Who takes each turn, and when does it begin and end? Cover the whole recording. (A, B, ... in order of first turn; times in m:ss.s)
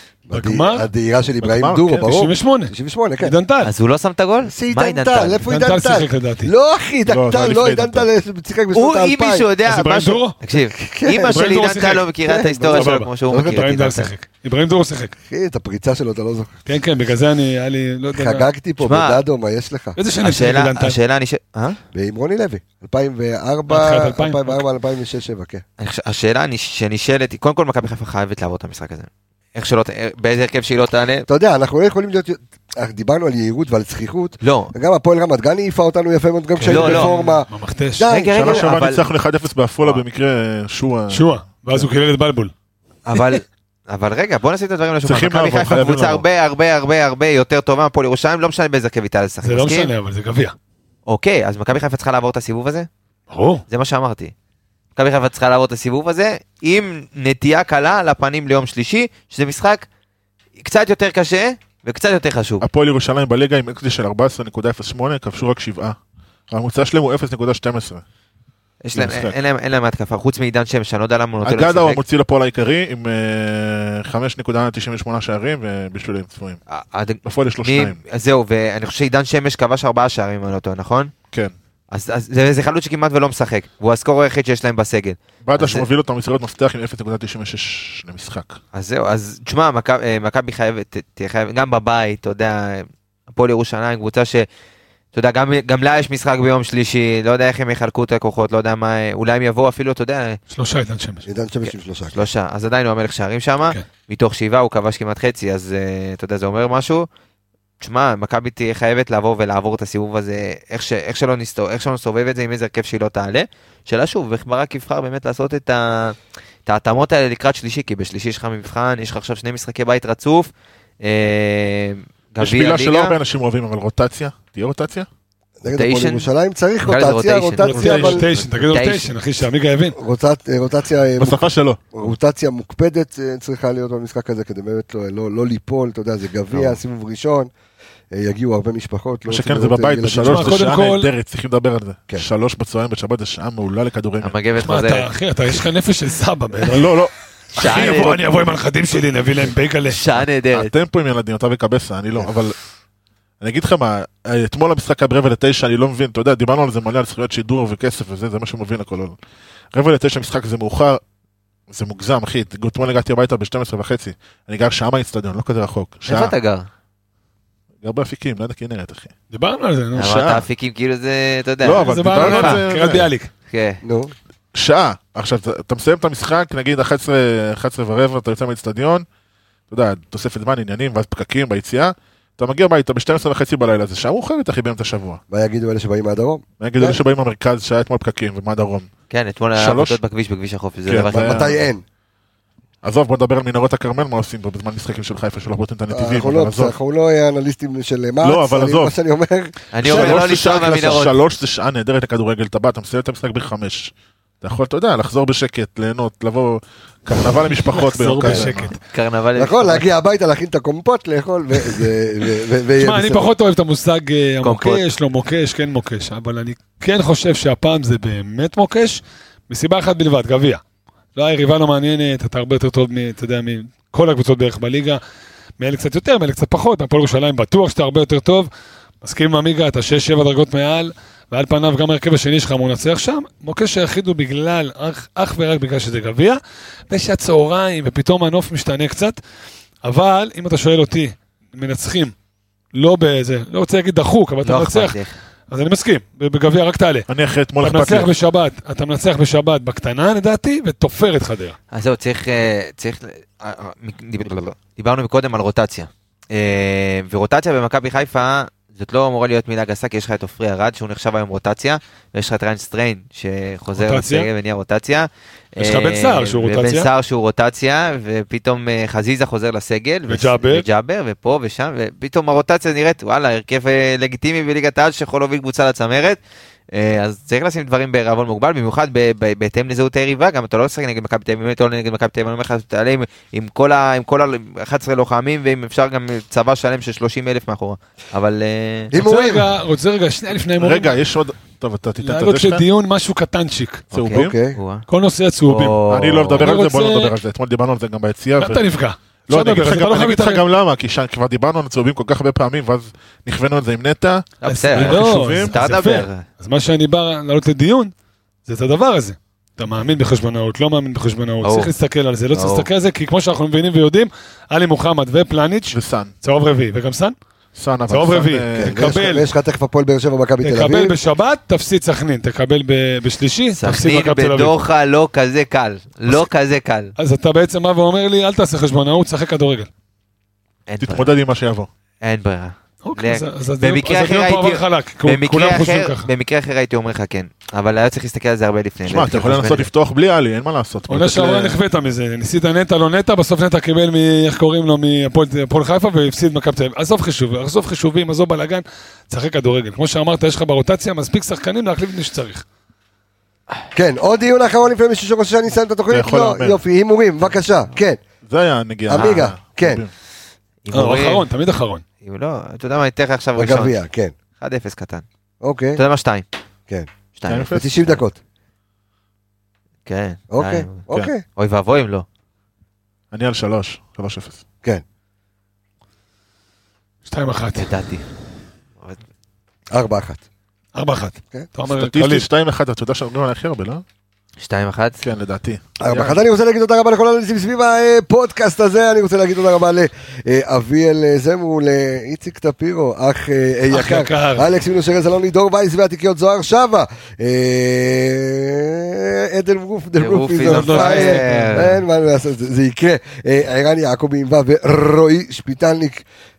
0:00.3-0:03.3 A
0:00.3-0:00.9 B
0:01.4-0:02.1 C
0:02.0-0:03.7 B
0:03.6-0:05.4 D
0:04.4-0:09.4 A
0:05.5-0:06.5 B
0:07.0-0:08.1 C
0:08.7-0:14.1 D
0:09.6-0:10.4 B
0:10.5-0:11.5 A
0:11.3-0:12.1 B
0:12.2-0:13.7 A
0:12.7-0:15.1 B
0:15.2-0:16.6 A
0:16.6-0:18.4 B
0:18.1-0:20.0 A
0:18.8-0:19.2 D
0:20.0-0:21.0 B
0:20.2-0:21.8 D
0:21.9-0:25.6 A
0:23.7-0:24.6 B
0:25.8-0:31.3 D
0:31.3-0:38.7 A
0:34.4-0:34.7 D
0:36.6-0:38.1 B
0:36.6-0:37.1 D
0:38.1-0:39.1 D
0:38.3-0:41.9 C
0:41.1-0:42.5 B
0:43.1-0:49.9 D
0:45.0-0:46.2 C
0:49.4-0:50.5 B
0:51.1-0:52.9 D
0:53.3-0:53.6 B
0:53.7-0:54.3 D
0:55.0-0:59.8 D
1:00.6-1:02.6 D
1:02.6-1:06.0 C
1:06.5-1:08.0 C
1:08.8-1:12.0 D
1:08.9-1:09.3 C
1:11.4-1:16.6 C
1:16.7-1:21.1 D
1:17.2-1:18.0 C
1:21.9-1:25.9 D
1:25.4-1:28.6 C
1:28.7-1:34.5 D
1:35.1-1:40.4 D
1:40.5-1:41.2 B
1:41.2-1:42.3 A
1:42.1-1:47.1 D
1:47.8-2:00.5 D
2:01.0-2:03.2 D
2:02.4-2:05.1 C
2:05.6-2:08.2 A
2:05.7-2:06.3 D
2:06.8-2:09.1 D
2:07.6-2:10.0 B
2:07.8-2:08.2 C
2:10.0-2:17.5 A
2:11.2-2:11.9 C
2:18.1-2:20.6 A
2:19.3-2:24.3 C
2:20.2-2:21.1 B
2:24.2-2:25.6 D
2:24.6-2:27.0 B
2:26.6-2:27.1 C
2:27.5-2:30.0 B
2:27.6-2:28.2 D
2:29.8-2:30.7 D
2:30.5-2:32.6 C
2:33.4-2:39.2 C
2:39.7-2:41.0 C
2:41.7-2:46.4 C
2:46.1-2:46.7 D
2:47.8-2:49.1 C
2:49.3-2:50.1 B
2:50.0-2:50.5 C
2:50.0-2:52.6 D
2:51.6-2:53.1 C
2:51.8-2:53.3 B
2:53.5-2:53.8 D
2:53.8-2:54.1 A
2:54.5-2:59.0 C
2:59.7-3:05.2 C
3:05.3-3:07.0 A
3:06.6-3:08.9 C
3:09.1-3:11.5 D
3:09.6-3:10.0 C
3:10.8-3:11.5 C
3:11.1-3:11.8 A
3:12.8-3:16.7 C
3:15.9-3:20.4 A
3:18.2-3:18.9 C
3:19.7-3:21.2 D
3:19.8-3:28.7 C
3:27.6-3:28.8 B
3:28.2-3:29.8 D
3:29.4-3:33.3 A
3:32.8-3:40.6 B
3:34.4-3:34.8 D
3:41.1-3:45.0 B
3:45.6-3:48.5 B
3:49.0-3:59.2 B
3:59.8-4:02.1 B
4:02.7-4:05.0 B
4:04.4-4:05.1 D
4:05.5-4:07.1 B
4:07.1-4:08.1 C
4:07.6-4:11.6 B
4:11.7-4:36.2 D
4:23.7-4:24.3 B
4:25.6-4:26.9 B
4:30.1-4:30.7 B
4:36.7-4:48.9 D
4:48.9-4:49.5 A
4:48.9-4:51.0 B
4:50.6-4:52.6 C
4:52.0-4:53.8 B
4:53.9-4:54.3 C
4:53.9-4:54.8 D
4:54.1-4:54.6 A
4:54.9-4:55.8 B
4:55.4-4:56.6 D
4:55.9-4:58.6 C
4:56.3-4:57.1 B
4:58.4-5:00.4 B
4:59.3-5:05.5 C
5:04.4-5:06.2 D
5:04.4-5:07.9 B
5:08.4-5:17.2 B
5:11.4-5:11.7 D
5:12.3-5:12.7 D
5:15.7-5:16.1 C
5:17.5-5:18.8 C
5:17.9-5:19.3 B
5:18.6-5:21.0 A
5:20.4-5:24.6 B
5:23.6-5:26.9 D
5:27.0-5:29.7 B
5:30.7-5:31.2 D
5:30.8-5:31.7 C
5:32.0-5:39.7 D
5:32.8-5:36.1 B
5:38.8-5:41.6 C
5:40.9-5:52.4 B
5:53.7-5:58.0 A
5:55.9-5:56.6 C
5:58.2-5:59.9 C
5:58.9-5:59.8 A
5:58.9-5:59.2 D
6:00.6-6:01.2 D
6:00.7-6:01.8 B
6:02.0-6:03.8 D
6:03.4-6:04.1 A
6:04.4-6:05.0 D
6:05.4-6:05.8 A
6:05.8-6:06.2 D
6:07.2-6:08.0 D
6:07.3-6:07.7 C
6:07.5-6:08.2 A
6:09.8-6:12.0 D
6:10.3-6:11.2 A
6:13.1-6:14.4 C
6:17.1-6:17.7 B
6:17.6-6:18.1 D
6:19.7-6:20.2 A
6:20.8-6:22.3 B
6:21.6-6:23.8 C
6:24.4-6:25.0 D
6:25.0-6:26.2 C
6:25.8-6:46.0 A
6:33.7-6:34.5 B
6:40.0-6:41.8 D
6:40.4-6:41.7 B